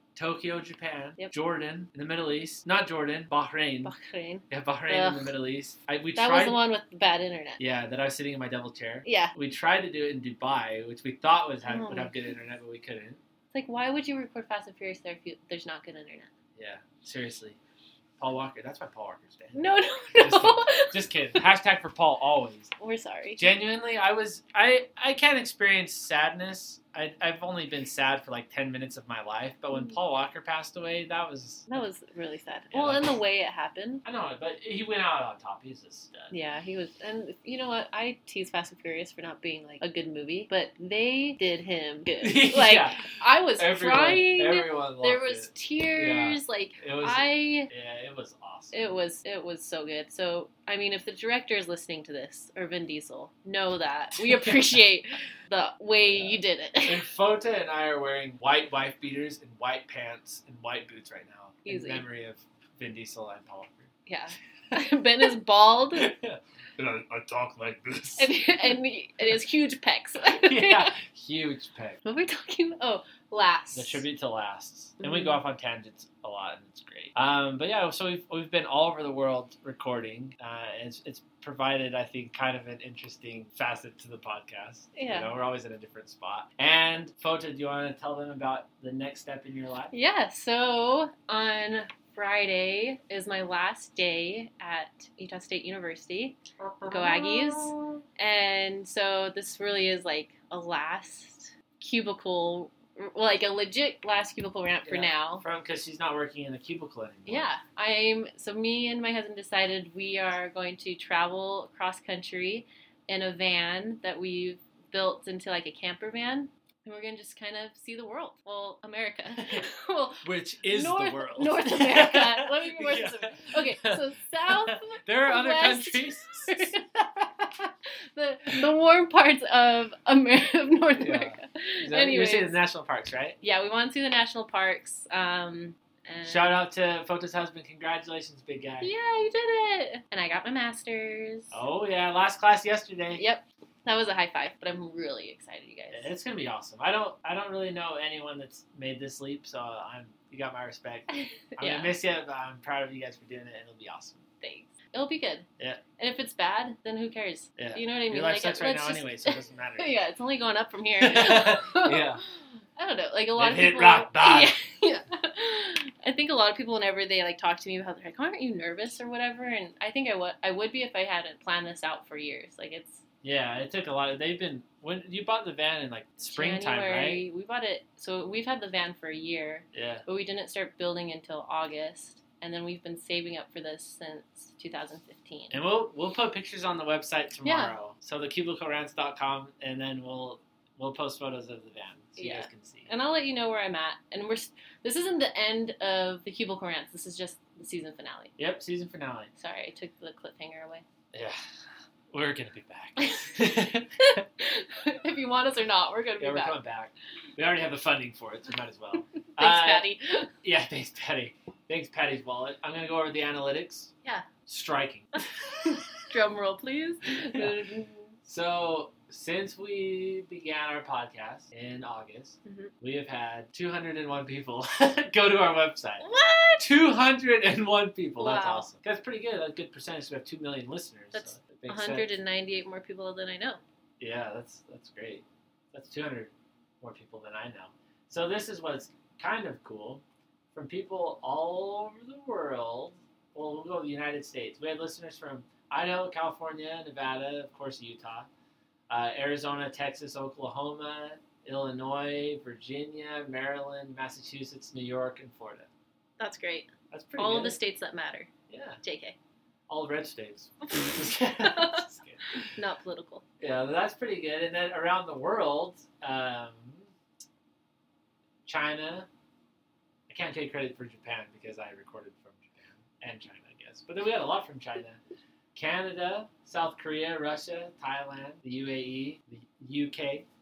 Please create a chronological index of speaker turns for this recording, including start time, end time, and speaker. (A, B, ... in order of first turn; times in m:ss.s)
0:00.2-0:03.9 A
0:03.8-0:05.4 B
0:04.5-0:06.6 A
0:06.2-0:07.6 B
0:07.6-0:13.2 A
0:09.0-0:09.3 B
0:11.6-0:12.3 B
0:13.5-0:16.3 B
0:16.6-0:17.6 A
0:18.2-0:22.7 A
0:19.6-0:21.4 B
0:22.8-0:23.5 B
0:23.4-0:31.8 A
0:31.7-0:34.0 B
0:32.7-0:33.1 A
0:34.0-0:36.4 A
0:36.3-0:47.7 B
0:42.2-0:49.0 A
0:48.7-0:57.1 B
0:56.0-1:03.9 A
1:01.7-1:02.0 B
1:04.1-1:06.1 B
1:05.9-1:08.3 A
1:08.2-1:10.9 B
1:10.2-1:12.0 A
1:12.0-1:14.0 B
1:13.7-1:29.9 A
1:15.0-1:15.4 B
1:25.0-1:25.3 B
1:29.9-1:45.4 B
1:36.6-1:38.0 A
1:44.9-1:47.5 A
1:47.3-2:06.8 B
1:59.4-1:59.7 A
2:00.2-2:07.7 A
2:08.2-2:12.6 B
2:11.0-2:13.4 A
2:13.4-2:16.6 B
2:16.2-2:18.9 A
2:18.8-2:21.5 B
2:21.5-2:23.2 A
2:23.2-2:26.1 B
2:25.9-2:34.2 A
2:31.1-2:31.9 B
2:34.4-2:35.5 B
2:36.0-2:53.0 B
2:37.6-2:40.0 A
2:41.0-2:42.2 A
2:43.4-2:44.5 A
2:53.2-2:57.2 A
2:56.2-3:05.6 B
2:59.7-3:00.0 A
3:05.5-3:12.9 A
3:07.4-3:07.8 B
3:12.2-3:18.3 B
3:18.4-3:19.3 A
3:19.4-3:20.8 B
3:21.1-3:21.4 A
3:22.1-3:24.0 A
3:23.0-3:26.6 B
3:26.2-3:29.9 A
3:29.4-3:30.3 B
3:30.4-3:33.9 A
3:34.5-3:35.1 A
3:35.2-3:38.1 B
3:37.3-3:37.6 A
3:38.2-3:46.1 A
3:42.4-3:42.7 B
3:46.0-3:46.7 B
3:46.6-3:52.2 A
3:48.2-3:48.7 B
3:51.1-3:53.6 B
3:54.0-4:00.0 A
4:00.5-4:08.3 A
4:08.9-4:15.7 A
4:16.2-4:18.3 B
4:16.9-4:17.6 A
4:18.5-4:18.8 A
4:18.8-4:19.2 B
4:19.7-4:22.5 A
4:21.4-4:21.8 B
4:22.6-4:23.2 B
4:23.4-4:26.9 A
4:28.5-4:29.1 A
4:30.1-4:35.0 A
4:35.6-4:40.3 A